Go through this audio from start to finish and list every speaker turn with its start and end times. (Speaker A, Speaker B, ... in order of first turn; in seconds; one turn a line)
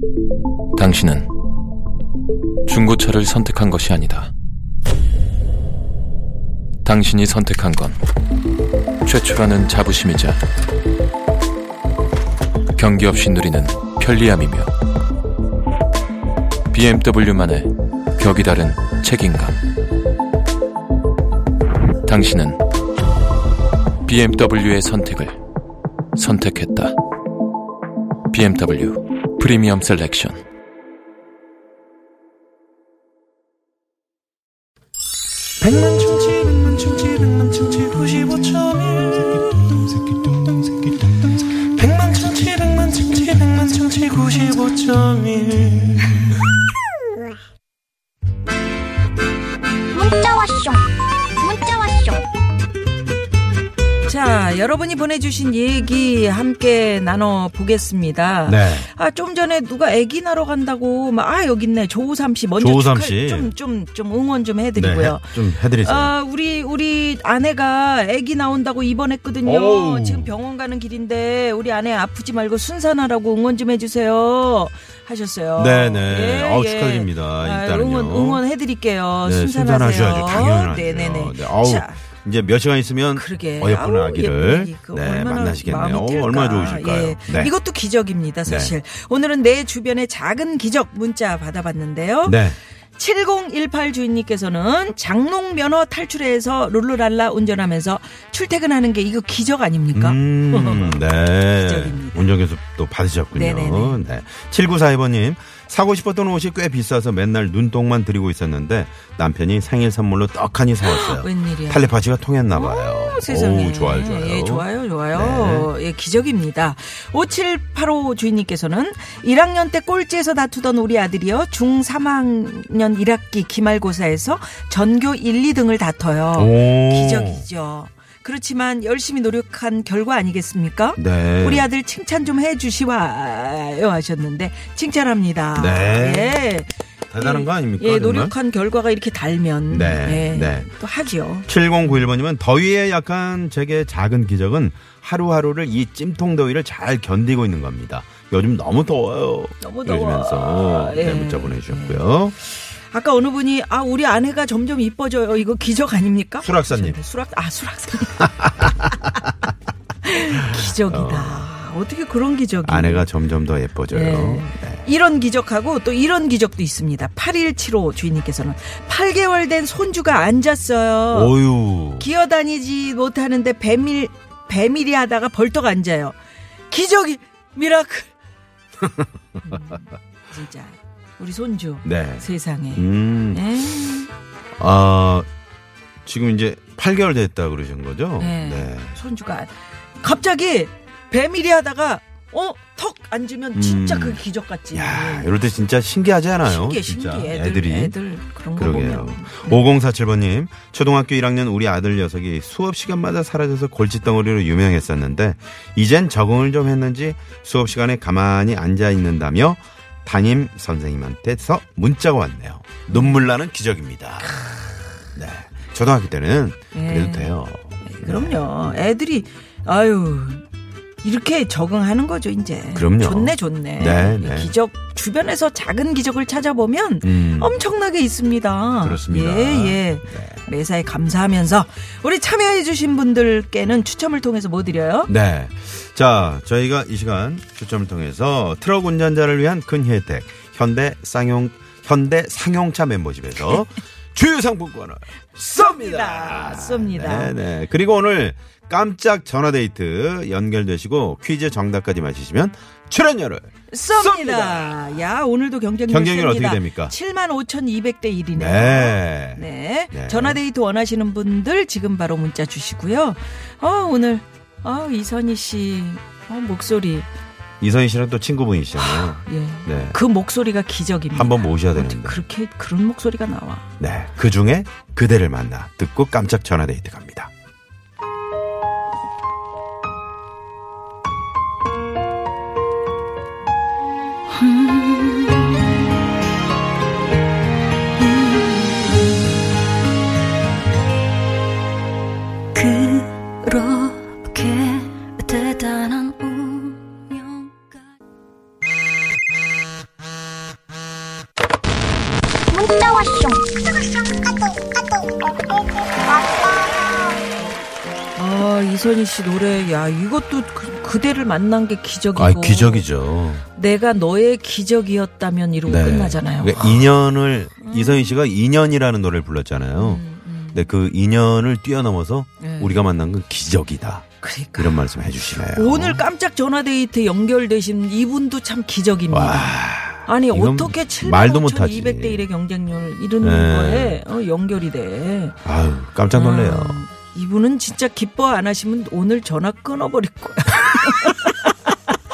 Speaker A: 0.8-1.3
Speaker A: 2.7-4.3
Speaker A: 6.8-8.0
Speaker A: 9.0-10.4
Speaker A: 12.8-14.7
Speaker A: 16.7-19.6
Speaker A: 22.0-22.6
Speaker A: 24.1-25.4
Speaker A: 26.1-26.9
Speaker A: 28.3-30.4
Speaker B: 35.7-39.1
Speaker B: 41.9-43.1
Speaker A: 43.3-44.1
Speaker B: 44.9-45.6
Speaker A: 45.6-46.0
Speaker C: 49.9-52.3
Speaker D: 54.0-82.0
Speaker E: 58.5-58.9
Speaker E: 62.6-63.5
Speaker E: 64.8-66.1
Speaker E: 69.4-70.3
Speaker E: 75.6-78.4
Speaker E: 79.2-87.5
Speaker D: 83.2-92.4
Speaker E: 88.5-88.7
Speaker E: 92.2-92.6
Speaker D: 93.0-101.0
Speaker E: 99.9-115.7
Speaker D: 101.6-102.3
Speaker D: 103.3-104.0
Speaker D: 110.8-111.9
Speaker D: 112.5-141.9
Speaker E: 126.3-127.5
Speaker E: 131.0-131.7
Speaker E: 135.5-136.4
Speaker E: 137.1-138.3
Speaker E: 139.7-140.7
Speaker E: 141.4-152.3
Speaker D: 149.6-158.3
Speaker E: 156.4-157.0
Speaker E: 158.2-159.1
Speaker D: 160.0-163.1
Speaker E: 160.6-161.5
Speaker E: 162.6-164.8
Speaker D: 163.9-171.3
Speaker E: 171.1-172.1
Speaker D: 172.0-176.2
Speaker D: 176.7-178.1
Speaker E: 178.8-179.4
Speaker D: 179.4-184.1
Speaker E: 181.8-183.5
Speaker E: 184.6-185.2
Speaker E: 186.0-188.9
Speaker D: 188.2-195.3
Speaker E: 193.5-197.9
Speaker D: 196.4-199.6
Speaker E: 198.5-214.3
Speaker D: 212.9-213.3
Speaker D: 214.4-214.7
Speaker E: 215.1-218.8
Speaker D: 216.7-217.3
Speaker D: 217.8-220.4
Speaker D: 221.0-235.1
Speaker E: 222.7-224.5
Speaker E: 227.0-227.6
Speaker E: 228.8-230.4
Speaker E: 235.1-254.8
Speaker D: 245.4-247.4
Speaker D: 253.7-267.1
Speaker E: 255.9-256.9
Speaker E: 258.3-260.4
Speaker E: 267.6-270.0
Speaker D: 268.8-273.7
Speaker E: 271.1-272.2
Speaker E: 273.8-277.3
Speaker C: 284.3-285.6
Speaker C: 288.0-288.9
Speaker C: 292.5-297.5
Speaker C: 302.5-305.1
Speaker C: 306.1-307.1
Speaker D: 308.1-312.9
Speaker E: 312.1-313.4
Speaker D: 313.5-316.9
Speaker E: 315.7-326.0
Speaker D: 317.6-318.2
Speaker D: 319.8-320.7
Speaker D: 322.4-322.8
Speaker D: 324.2-335.4
Speaker E: 329.1-332.3
Speaker E: 333.2-334.0
Speaker E: 335.4-336.8
Speaker D: 336.1-341.7